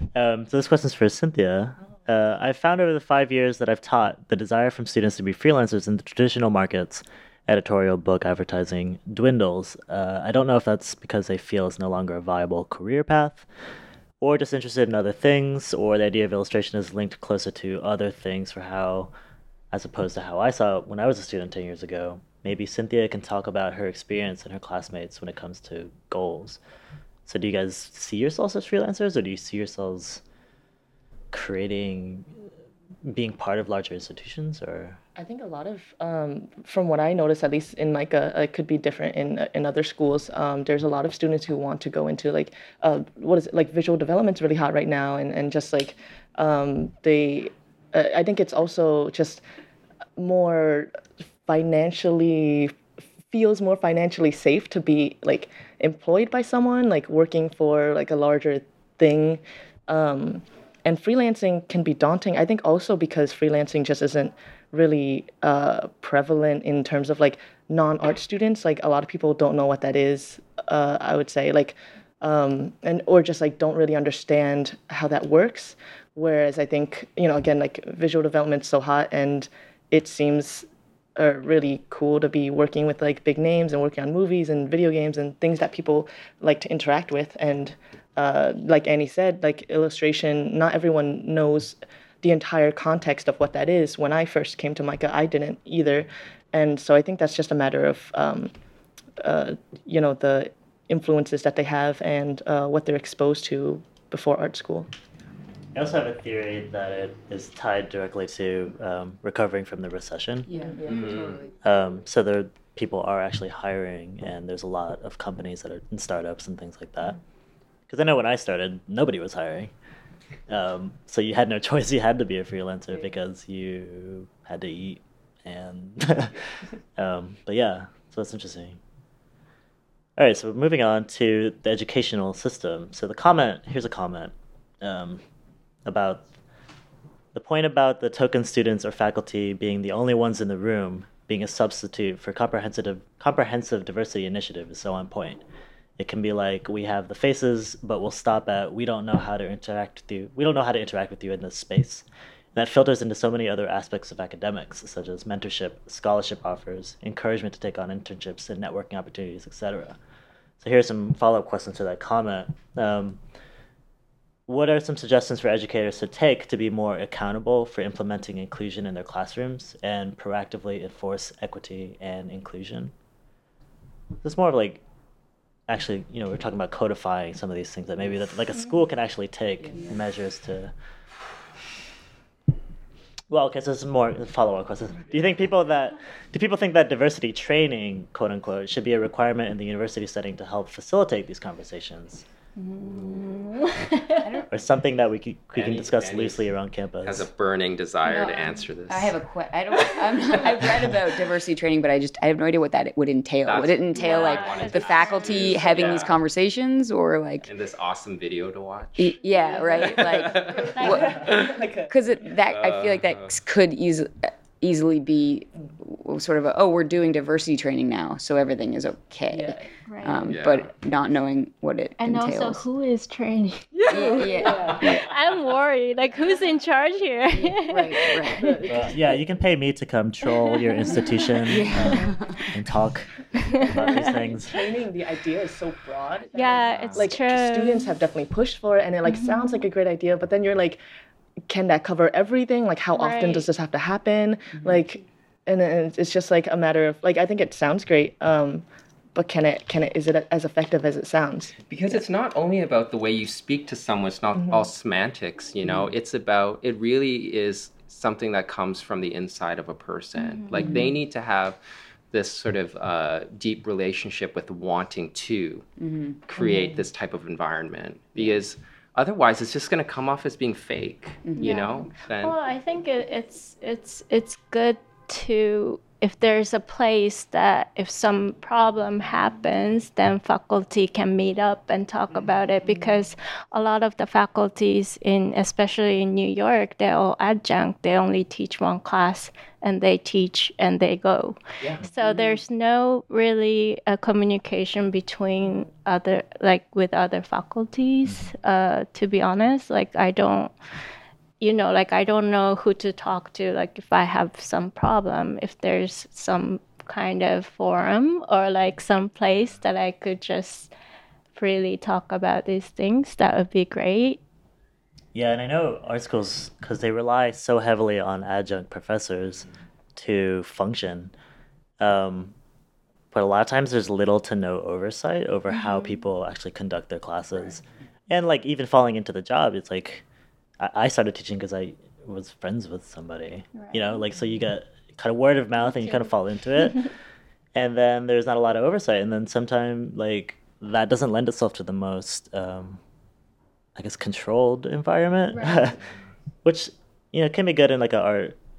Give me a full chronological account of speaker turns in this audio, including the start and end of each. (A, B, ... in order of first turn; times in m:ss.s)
0:00.1-0:13.4 A
0:14.2-0:19.1 A
0:19.7-0:26.6 A
0:27.3-0:30.2 A
0:31.3-0:32.3 A
0:33.0-0:35.0 A
0:35.2-0:49.4 B
0:50.2-0:50.9 B
0:51.5-0:52.8 B
0:53.3-1:38.5 B
1:39.2-1:44.9 B
1:45.7-1:50.5 A
1:50.5-1:51.5 C
1:50.6-1:51.2 B
1:50.9-1:51.4 D
1:51.6-1:57.2 A
1:57.9-1:59.7 A
2:00.5-2:08.8 A
2:10.2-2:15.2 A
2:15.8-2:16.2 A
2:17.3-2:25.4 A
2:26.0-2:40.0 A
2:40.6-2:43.2 A
2:44.5-2:52.9 A
2:54.2-2:54.8 A
2:55.7-3:00.7 A
3:03.3-3:12.2 A
3:12.6-3:14.4 E
3:14.2-3:14.6 C
3:14.5-3:17.3 A
3:15.5-3:16.5 D
3:17.0-3:19.2 D
3:18.0-3:27.5 C
3:20.5-3:20.8 D
3:23.4-3:26.2 D
3:23.9-3:26.0 E
3:27.4-3:31.3 D
3:29.0-3:42.6 C
3:29.3-3:31.6 E
3:30.9-3:31.9 B
3:32.4-3:33.4 D
3:39.9-3:40.4 E
3:40.3-3:40.7 D
3:42.0-3:48.6 E
3:43.9-3:45.1 C
3:44.2-3:44.7 B
3:47.3-3:48.6 C
3:48.3-3:48.8 B
3:48.6-3:54.6 A
3:50.4-3:51.1 E
3:51.5-3:52.5 C
3:53.5-3:54.1 E
3:54.4-4:00.8 B
3:56.3-3:57.9 E
3:59.1-3:59.6 E
4:01.5-4:11.6 B
4:02.9-4:03.5 E
4:11.7-4:21.6 D
4:20.1-4:20.7 E
4:20.6-4:20.9 C
4:22.1-4:25.7 D
4:25.8-4:26.2 C
4:26.3-4:32.4 D
4:26.4-4:26.8 B
4:31.3-4:31.7 C
4:31.4-5:00.6 E
4:58.1-4:58.3 A
5:01.4-5:10.7 E
5:11.3-5:14.2 E
5:15.1-5:21.1 A
5:21.8-5:22.4 A
5:23.1-5:30.0 A
5:25.5-5:26.0 E
5:30.6-5:36.9 A
5:33.6-5:34.0 E
5:35.6-5:36.1 E
5:37.6-5:42.8 A
5:43.8-5:45.8 A
5:45.3-5:45.8 E
5:46.4-5:48.4 A